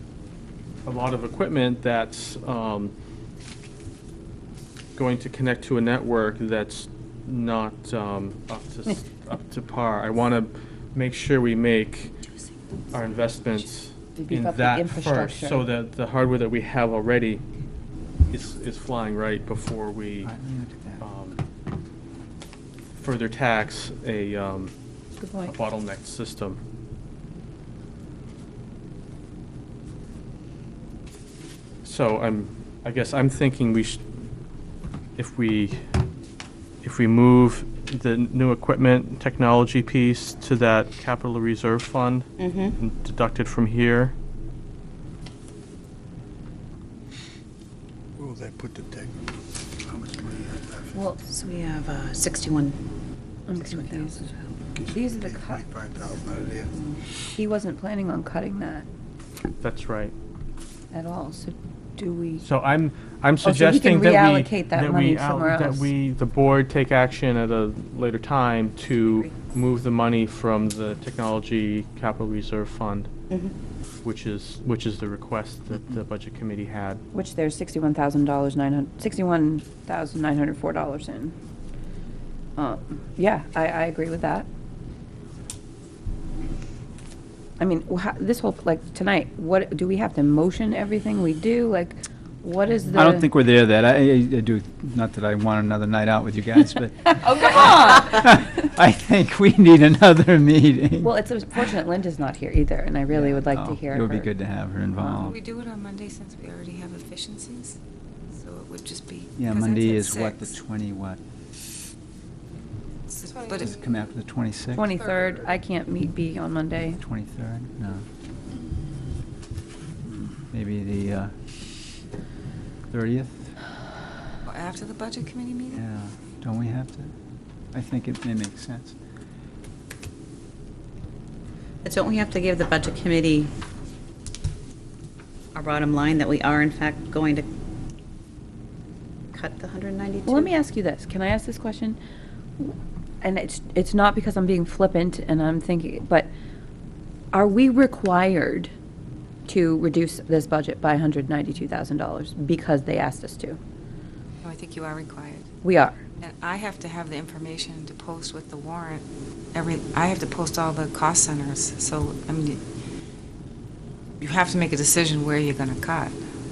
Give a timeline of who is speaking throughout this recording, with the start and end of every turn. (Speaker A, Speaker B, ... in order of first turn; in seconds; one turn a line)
Speaker A: 0.8-2.9
Speaker A: 5.0-12.1
Speaker A: 12.9-17.4
Speaker B: 14.2-15.6
Speaker A: 18.3-20.3
Speaker C: 20.2-21.1
Speaker A: 21.0-21.4
Speaker A: 23.0-24.7
Speaker B: 25.2-25.5
Speaker A: 25.4-26.6
Speaker A: 31.8-34.0
Speaker A: 35.2-35.8
Speaker A: 36.8-44.1
Speaker D: 42.4-42.8
Speaker E: 48.2-49.1
Speaker E: 49.9-50.9
Speaker B: 50.9-51.2
Speaker D: 51.2-52.8
Speaker B: 53.5-54.3
Speaker D: 53.7-54.4
Speaker B: 54.9-55.6
Speaker E: 55.6-56.7
Speaker B: 56.8-58.9
Speaker A: 59.6-60.1
Speaker B: 60.9-62.5
Speaker A: 62.4-73.1
Speaker B: 63.4-65.9
Speaker A: 74.0-77.0
Speaker B: 77.1-81.3
Speaker B: 82.6-84.5
Speaker B: 87.6-93.3
Speaker C: 92.9-101.1
Speaker B: 97.0-98.5
Speaker B: 101.0-104.3
Speaker C: 103.1-105.3
Speaker F: 105.0-107.8
Speaker F: 108.3-110.5
Speaker C: 109.4-111.2
Speaker F: 113.1-113.8
Speaker C: 113.6-114.9
Speaker B: 114.7-117.0
Speaker C: 117.0-118.0
Speaker C: 120.5-121.3
Speaker C: 122.9-123.5
Speaker F: 124.4-125.8
Speaker C: 125.7-127.1
Speaker C: 127.7-128.9
Speaker D: 131.8-133.5
Speaker D: 135.5-137.5
Speaker D: 139.3-140.5
Speaker B: 140.2-142.0
Speaker B: 142.6-146.3
Speaker B: 147.3-148.7
Speaker B: 149.4-153.6
Speaker F: 154.4-155.5
Speaker B: 155.6-156.0
Speaker F: 156.2-162.6
Speaker F: 164.2-166.2